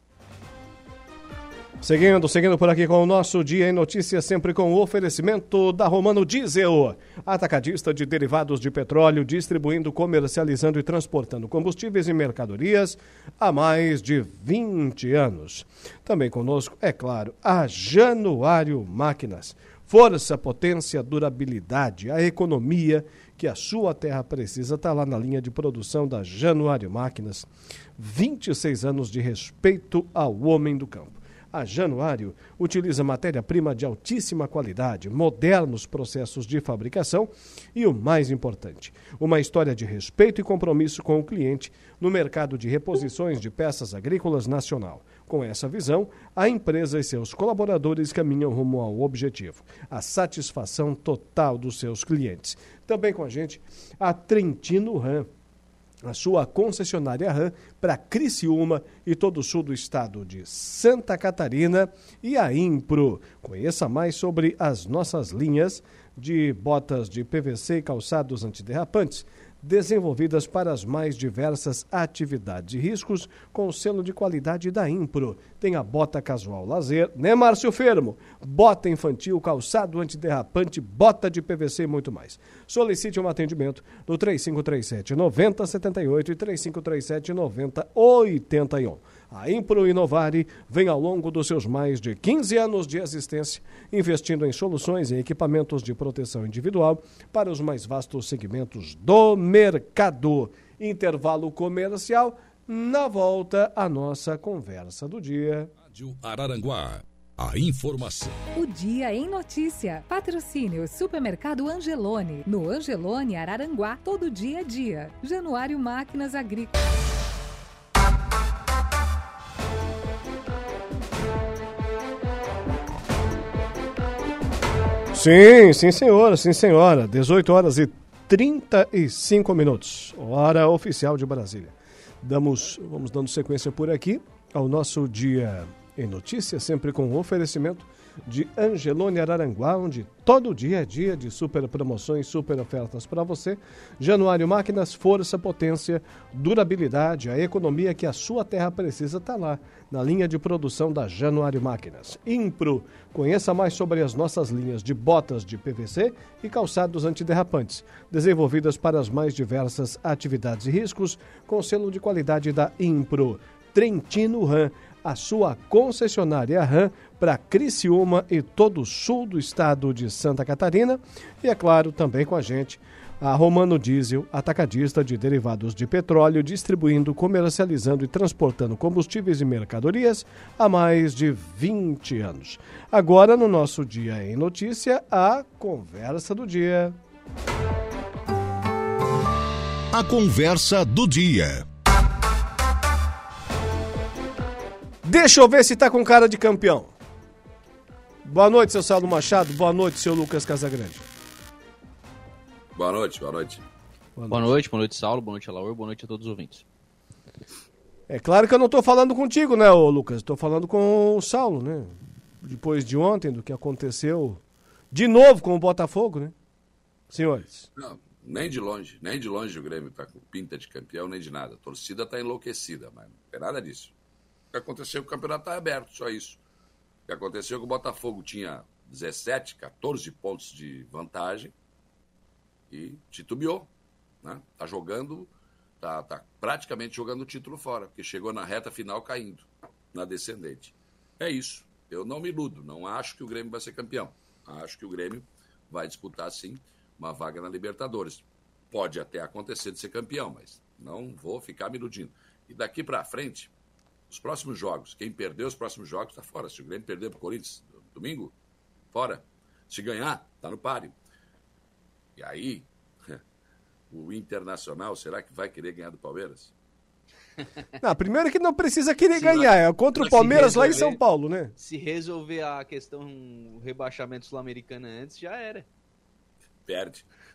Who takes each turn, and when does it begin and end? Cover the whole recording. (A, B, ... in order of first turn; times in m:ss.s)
0:01.8-0:55.3 A
0:56.0-1:45.7 A
1:46.2-1:48.3 B
1:48.6-1:56.8 C
2:05.1-3:07.0 A
3:09.9-3:11.6 B
3:15.0-3:16.9 A
3:18.2-3:21.1 A
3:22.8-3:23.6 D
3:24.2-3:24.6 A
3:24.3-3:26.6 E
3:28.1-3:34.4 A
3:34.9-3:36.3 A
3:37.1-3:37.7 A
3:37.8-3:43.9 D
3:44.5-3:46.4 D
3:47.1-3:51.6 D
3:52.7-3:53.7 D
3:54.2-4:13.5 D
4:14.1-4:18.3 D
4:18.9-4:21.0 D
4:22.2-4:23.2 D
4:23.9-4:26.5 D
4:27.8-4:31.5 A
4:29.2-4:29.5 D
4:30.0-4:31.0 D
4:30.1-4:31.0 E
4:31.6-4:35.7 E
4:36.7-4:37.1 D